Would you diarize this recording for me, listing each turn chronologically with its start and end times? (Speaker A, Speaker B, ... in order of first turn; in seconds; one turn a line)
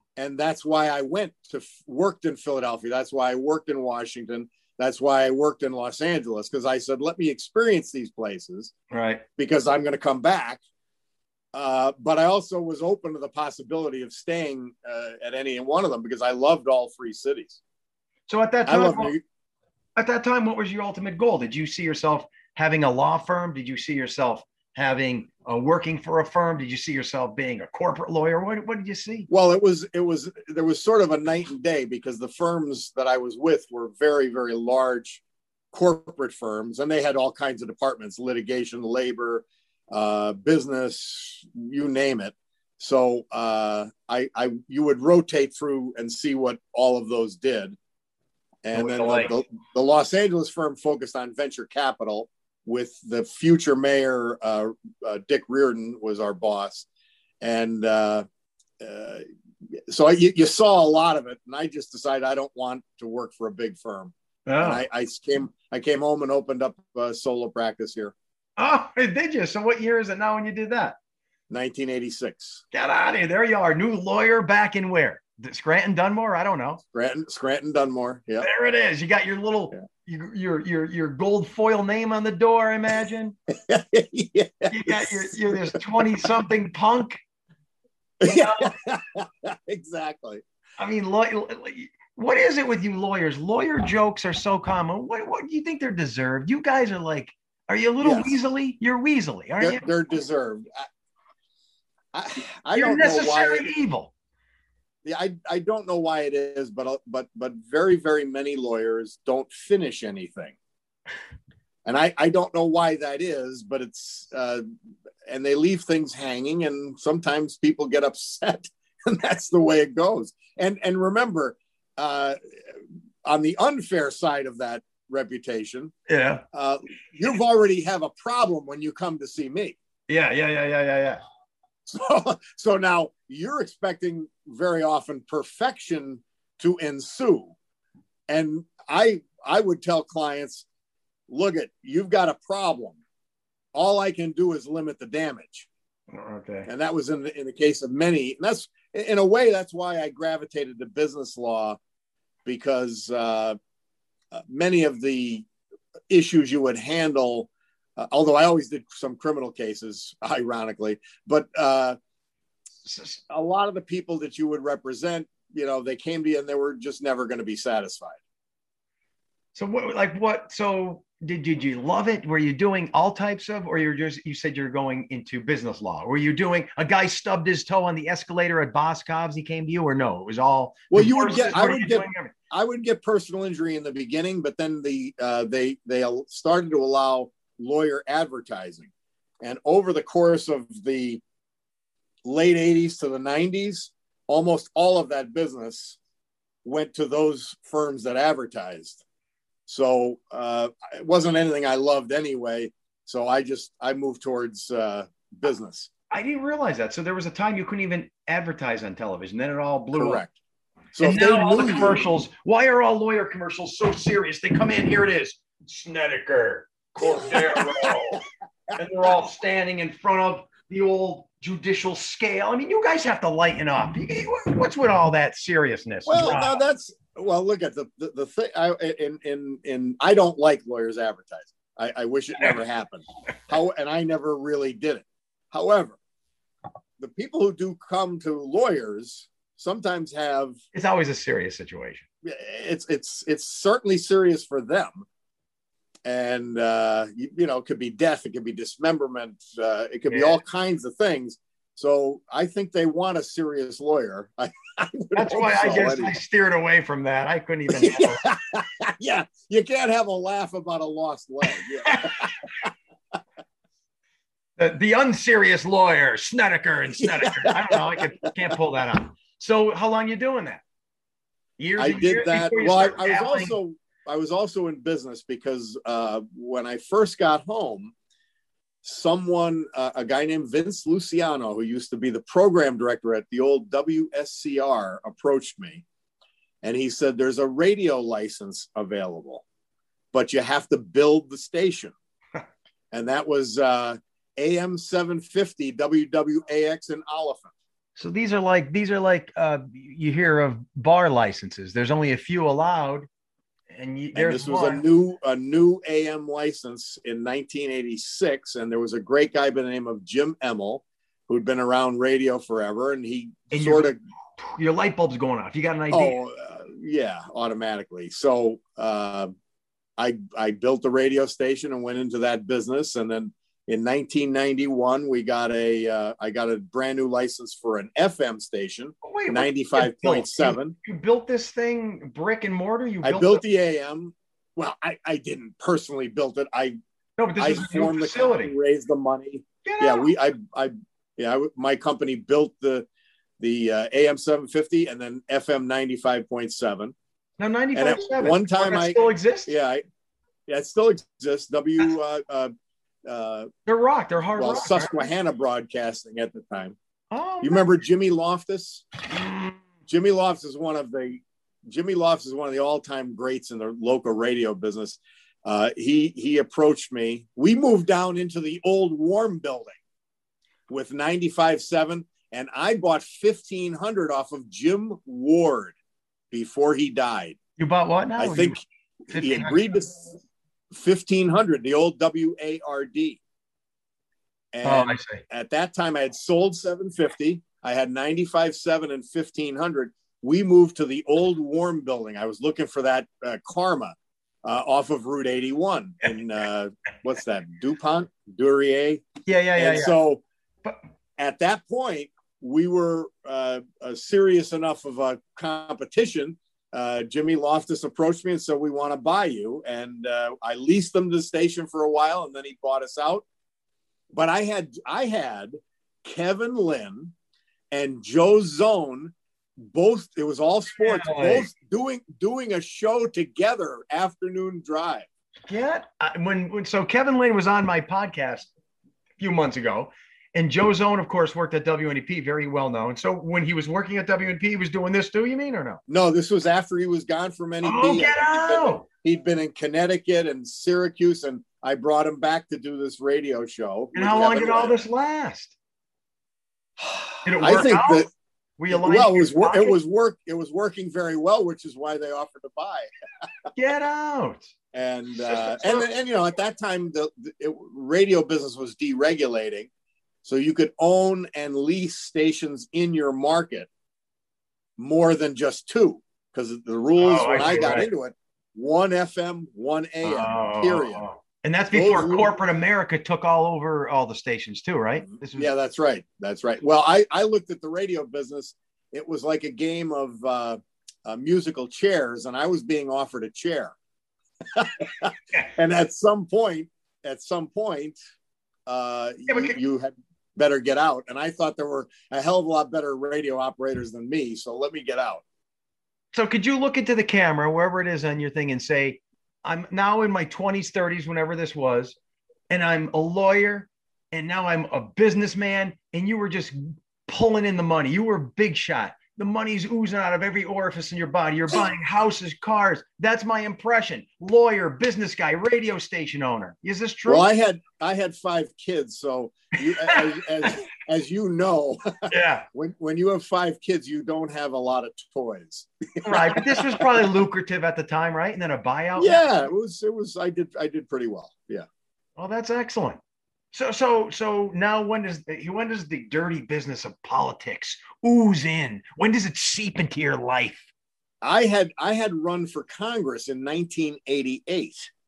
Speaker A: 0.2-8.7
Speaker B: 8.9-9.2
Speaker A: 9.4-10.6
Speaker A: 11.5-17.6
Speaker B: 18.3-19.1
Speaker A: 18.6-19.2
Speaker B: 19.9-29.3
Speaker A: 29.3-35.2
Speaker A: 35.7-47.8
Speaker A: 48.6-56.9
Speaker B: 48.7-49.3
Speaker A: 57.4-58.2
Speaker A: 58.8-59.2
Speaker A: 59.9-68.1
Speaker B: 64.5-64.8
Speaker B: 68.6-71.0
Speaker A: 71.5-72.6
Speaker B: 72.7-76.8
Speaker A: 76.9-78.5
Speaker B: 78.4-83.3
Speaker A: 83.5-86.0
Speaker B: 84.7-87.2
Speaker A: 88.2-90.4
Speaker B: 88.2-88.7
Speaker B: 90.8-99.9
Speaker A: 98.0-98.3
Speaker A: 99.6-100.8
Speaker A: 102.1-103.7
Speaker B: 102.7-104.1
Speaker A: 105.0-110.5
Speaker A: 111.8-114.6
Speaker A: 115.2-125.9
Speaker B: 126.1-126.4
Speaker A: 126.5-129.8
Speaker B: 130.1-131.2
Speaker A: 131.8-137.5
Speaker A: 138.3-140.7
Speaker A: 141.3-143.0
Speaker A: 143.7-145.7
Speaker B: 146.1-146.7
Speaker A: 146.7-151.8
Speaker A: 152.4-153.6
Speaker A: 154.3-155.4
Speaker A: 156.1-162.0
Speaker B: 162.8-163.2
Speaker A: 163.3-168.2
Speaker B: 169.5-182.3
Speaker A: 180.9-191.2
Speaker A: 192.2-196.0
Speaker A: 196.6-199.0
Speaker A: 199.7-205.9
Speaker B: 206.1-210.2
Speaker A: 209.9-210.3
Speaker A: 210.9-212.0
Speaker B: 211.0-218.2
Speaker A: 217.0-218.8
Speaker B: 218.7-226.5
Speaker A: 226.1-236.0
Speaker A: 237.0-240.6
Speaker B: 240.7-242.1
Speaker A: 242.2-245.1
Speaker A: 246.0-256.1
Speaker B: 250.1-250.4
Speaker B: 255.1-258.3
Speaker A: 257.7-262.7
Speaker B: 261.5-262.3
Speaker B: 264.6-270.6
Speaker A: 267.0-267.8
Speaker B: 271.6-273.6
Speaker A: 271.8-277.9
Speaker A: 278.8-285.8
Speaker A: 286.6-289.4
Speaker A: 290.1-291.9
Speaker A: 292.9-297.5
Speaker B: 297.9-303.1
Speaker B: 303.7-304.8
Speaker A: 304.1-314.0
Speaker B: 313.5-316.1
Speaker A: 315.9-319.3
Speaker A: 320.0-330.7
Speaker B: 329.0-333.4
Speaker A: 333.0-336.8
Speaker B: 337.2-338.5
Speaker A: 337.4-342.9
Speaker B: 339.6-340.1
Speaker A: 343.4-346.9
Speaker B: 347.4-349.5
Speaker A: 347.7-349.8
Speaker A: 350.5-352.5
Speaker A: 353.1-353.5
Speaker B: 353.6-355.1
Speaker A: 354.4-356.8
Speaker B: 357.1-357.7
Speaker A: 357.4-358.9
Speaker B: 359.2-359.5
Speaker A: 359.9-369.8
Speaker A: 370.7-375.7
Speaker A: 376.3-377.4
Speaker B: 377.6-378.6
Speaker A: 378.2-378.6
Speaker B: 379.1-379.6
Speaker A: 379.1-380.1
Speaker A: 380.7-383.2
Speaker A: 384.5-400.2
Speaker B: 384.6-385.2
Speaker B: 399.2-400.0
Speaker A: 401.2-413.2
Speaker A: 414.1-417.1
Speaker A: 417.7-425.1
Speaker B: 420.8-421.5
Speaker B: 425.5-428.5
Speaker B: 429.2-435.8
Speaker A: 435.9-444.8
Speaker B: 437.6-438.8
Speaker B: 443.9-445.5
Speaker A: 446.8-448.1
Speaker B: 447.2-449.8
Speaker A: 448.7-453.3
Speaker B: 453.5-454.5
Speaker A: 454.7-459.7
Speaker B: 455.2-455.8
Speaker A: 460.2-463.7
Speaker A: 464.8-471.0
Speaker B: 467.0-467.9
Speaker B: 470.0-475.5
Speaker A: 471.7-472.3
Speaker A: 475.2-483.8
Speaker A: 484.5-488.0
Speaker A: 488.7-495.2
Speaker B: 489.3-489.6
Speaker B: 496.1-501.9
Speaker B: 502.5-517.3
Speaker A: 517.1-526.9
Speaker B: 519.7-520.0
Speaker B: 522.1-522.5
Speaker B: 526.0-529.2
Speaker A: 529.0-531.6
Speaker B: 532.2-533.0
Speaker B: 533.5-540.7
Speaker A: 541.2-544.9